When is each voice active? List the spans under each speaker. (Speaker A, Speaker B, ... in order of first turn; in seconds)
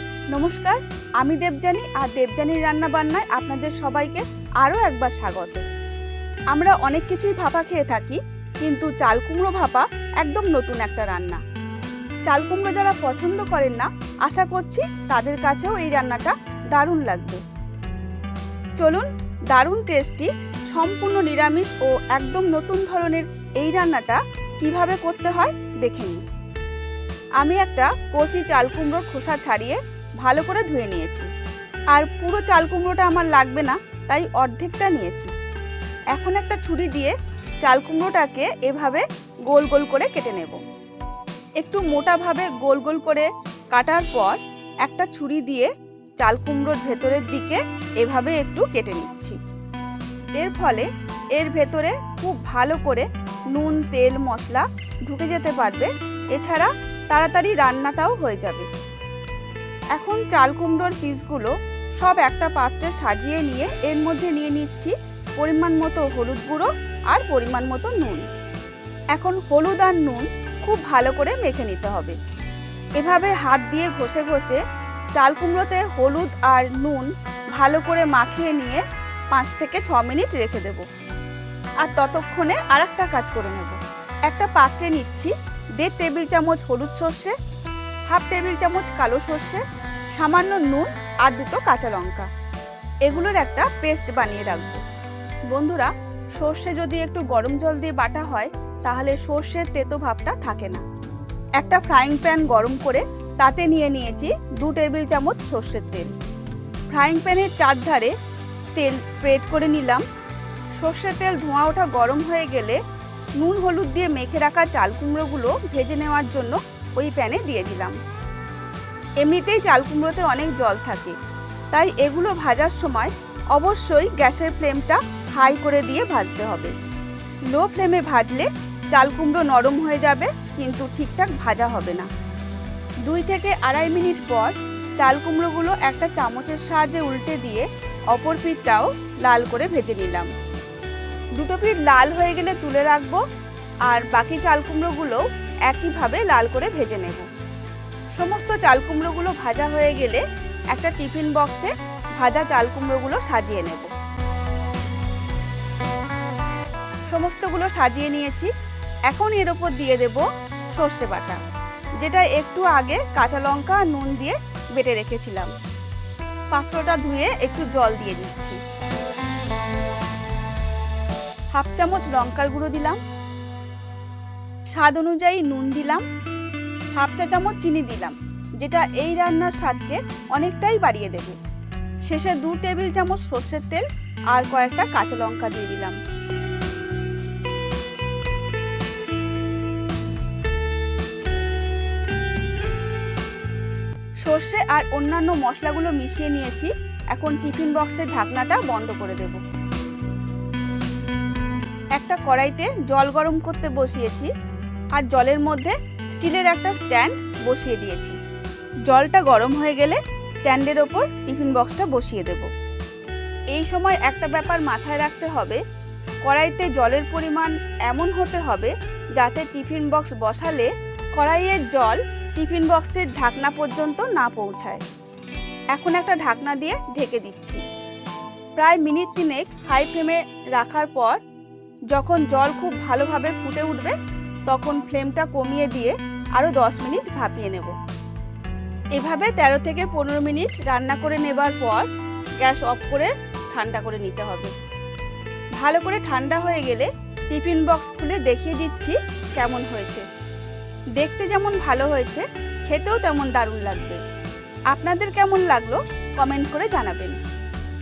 Speaker A: 0.3-5.7, 6.5-11.4, 12.3-17.4, 18.8-26.2, 27.4-31.3, 31.9-35.3, 36.1-40.6, 41.6-49.4, 50.4-58.7, 60.0-68.2, 69.1-72.2, 73.0-74.6, 75.2-78.8, 79.3-80.8, 81.8-87.4, 88.1-89.6, 90.2-92.3, 93.0-94.8, 95.5-100.8, 101.6-106.1, 106.9-108.2, 108.8-110.0, 110.8-112.8, 113.4-118.0, 119.2-121.2, 121.7-126.7, 127.5-132.1, 133.1-140.3, 141.4-143.2, 143.9-147.3, 148.2-153.9, 157.1-158.5, 159.1-161.4, 162.0-165.5, 166.5-168.6, 171.5-173.0, 174.7-176.0, 177.0-181.4, 182.1-186.0, 194.2-199.4, 202.0-204.3, 204.9-208.2, 208.9-212.5, 213.5-215.6, 216.2-224.8, 225.7-227.6, 228.6-231.2, 231.9-233.9, 234.5-237.8, 238.9-241.9, 242.4-244.5, 245.6-250.1, 251.0-254.0, 254.7-257.2